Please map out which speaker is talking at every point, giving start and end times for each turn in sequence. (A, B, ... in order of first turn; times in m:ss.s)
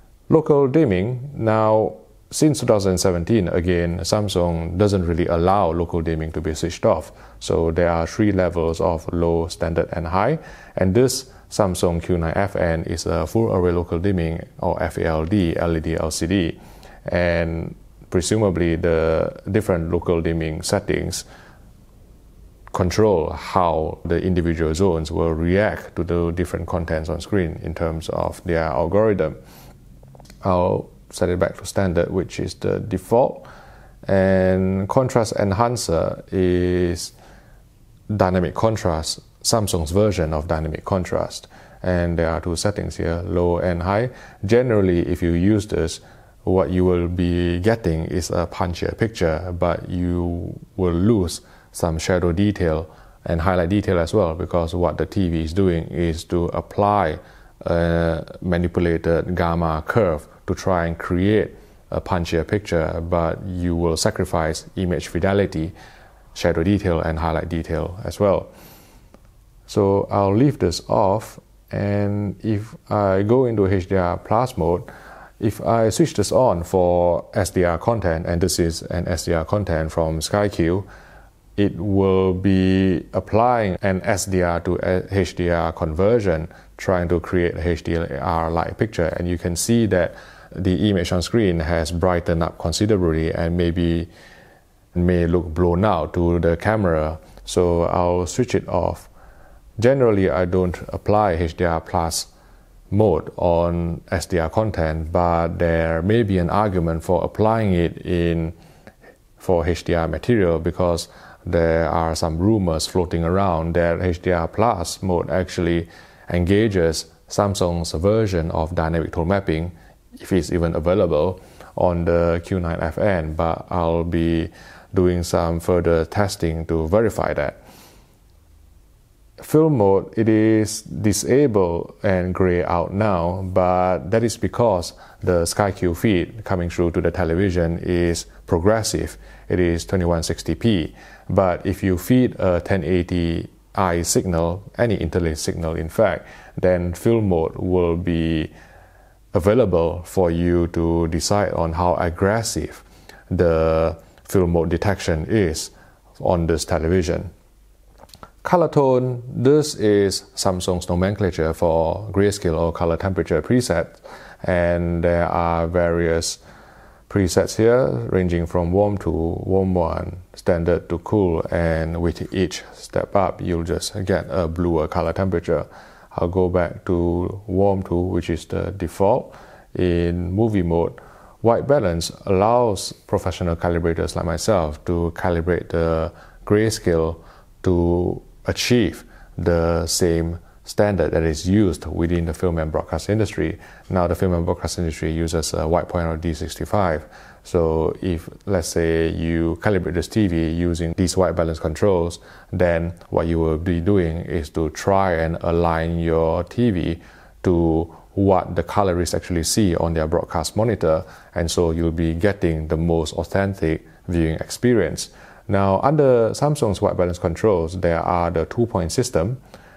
0:00.3-0:21.3 A
0:22.7-0:29.4 A
0:30.4-0:33.5 A
0:34.1-0:37.1 A
0:38.1-1:05.7 A
1:06.4-1:08.5 A
1:09.7-1:14.9 A
1:15.4-1:20.9 A
1:21.6-1:34.1 A
1:34.9-1:39.1 A
1:39.8-1:42.3 A
1:42.9-1:48.6 A
1:49.4-2:07.6 A
2:09.4-2:28.5 A
2:29.3-2:37.3 A
2:38.4-2:46.4 A
2:47.1-3:39.4 A